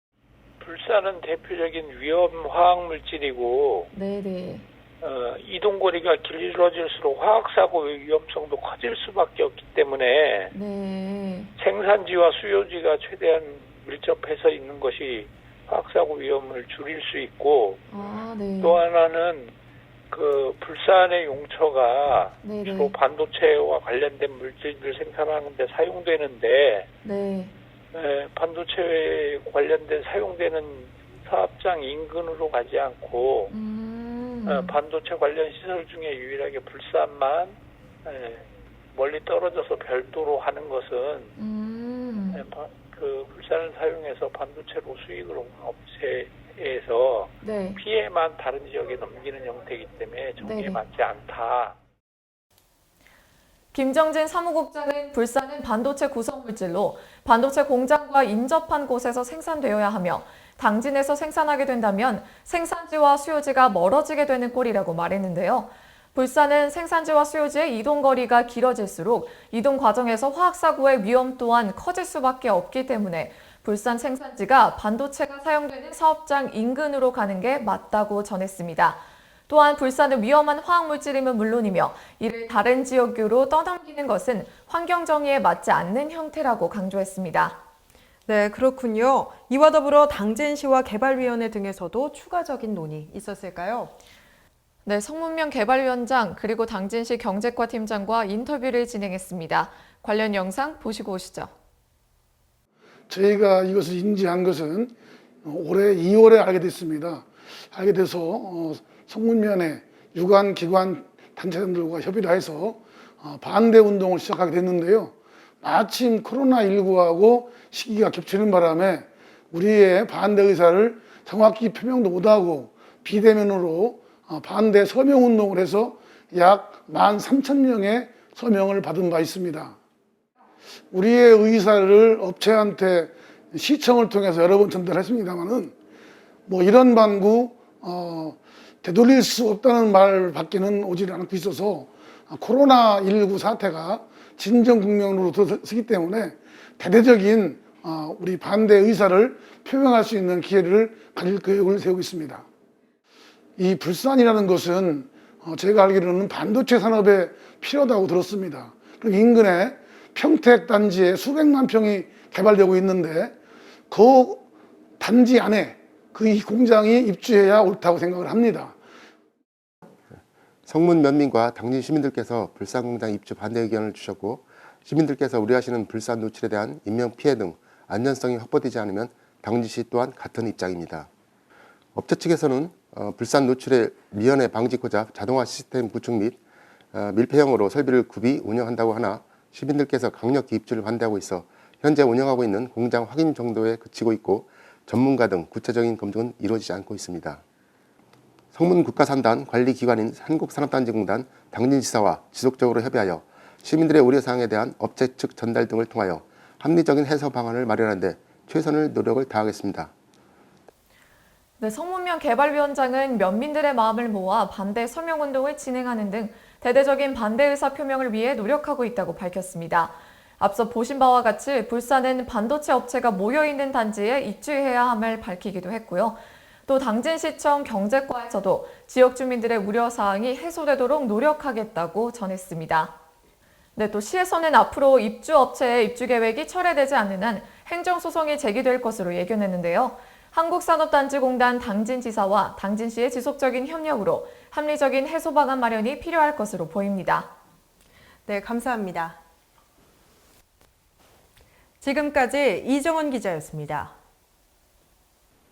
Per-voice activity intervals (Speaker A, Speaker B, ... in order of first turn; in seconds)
Speaker A: 0.6-3.9, 5.0-10.5, 11.6-17.8, 18.6-19.5, 20.1-26.9, 27.9-33.5, 34.5-41.3, 42.3-51.8
Speaker B: 3.9-4.6, 10.5-11.5, 17.9-18.8, 22.4-22.9, 27.0-27.5, 33.5-34.7, 41.4-42.4, 47.4-47.8, 50.4-50.8, 53.7-87.6, 94.8-101.5, 211.6-232.9, 233.7-247.3
Speaker C: 88.3-93.9, 248.3-249.2, 251.8-253.9
Speaker D: 103.1-104.9, 105.4-129.7, 130.9-135.7, 136.5-152.4, 153.6-163.3, 163.9-164.4, 165.0-168.7
Speaker E: 170.7-181.1, 181.9-186.4, 186.9-197.4, 198.5-209.9